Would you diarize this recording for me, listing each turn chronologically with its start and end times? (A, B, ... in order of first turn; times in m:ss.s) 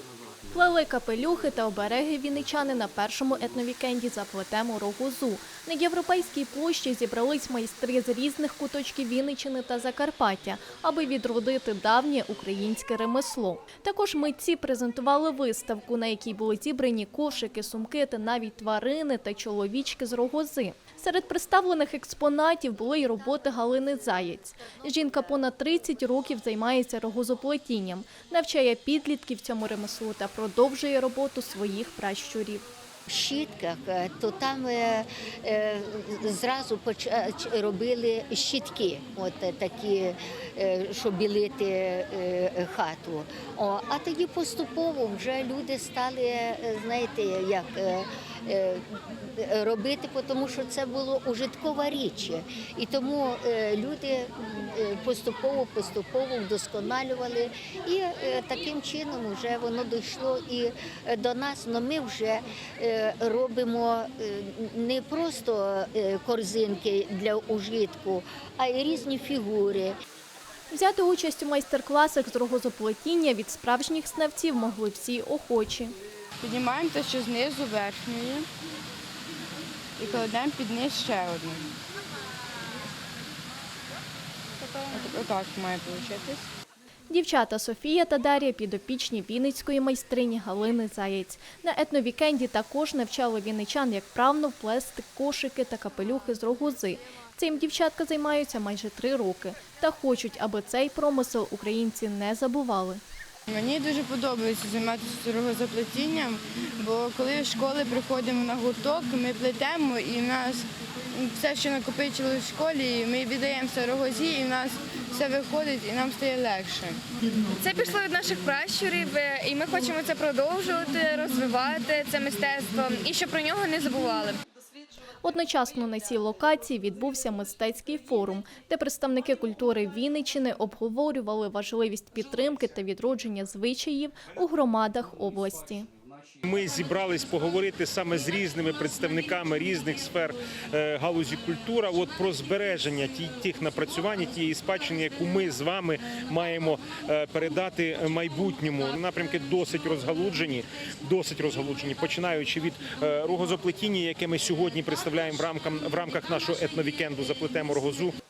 0:00.5-0:32.6 A
0:33.1-1:10.0 B
1:10.7-1:15.9 A
1:16.4-1:18.5 C
1:20.0-1:21.7 C
1:24.6-1:24.9 D
1:24.9-1:26.5 C
1:27.1-1:43.0 A
1:43.5-1:57.0 C
1:57.6-2:04.4 D
2:05.2-2:15.9 A
2:16.4-2:38.1 E